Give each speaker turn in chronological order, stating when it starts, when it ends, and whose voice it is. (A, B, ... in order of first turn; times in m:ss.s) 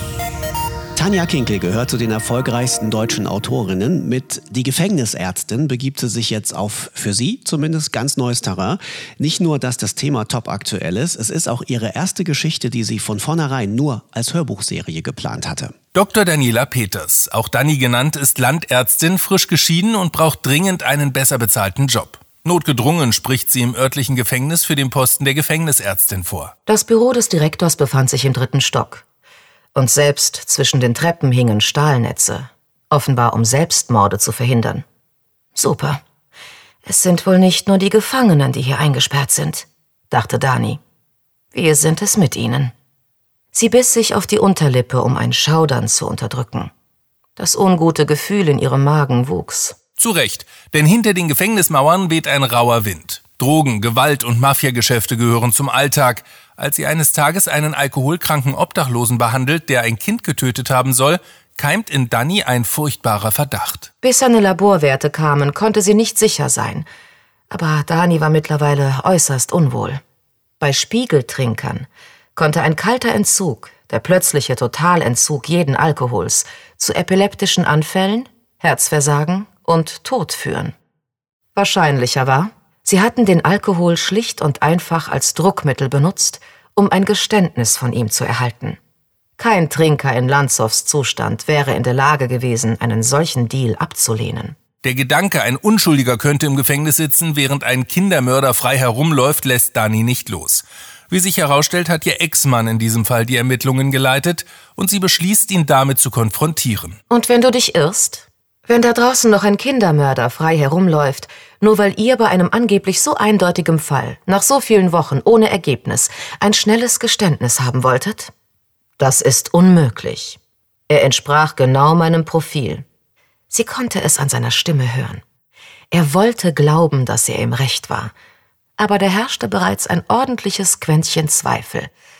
0:01.0-0:15.7 A
0:15.9-0:26.5 B
0:26.7-0:29.0 C
0:29.7-0:34.8 C
0:35.5-0:36.0 C
0:36.8-0:40.8 C
0:41.5-0:42.7 C
0:43.5-0:46.7 C
0:47.4-0:49.8 C
0:50.0-1:03.9 B
1:04.0-1:06.9 C
1:07.5-1:10.0 C
1:10.6-1:20.7 C
1:21.5-1:28.8 C
1:29.4-1:34.6 C
1:34.8-1:47.0 B
1:47.1-1:58.3 C
1:59.0-2:02.8 C
2:03.5-2:05.2 C
2:05.9-2:08.1 C
2:08.8-2:11.9 C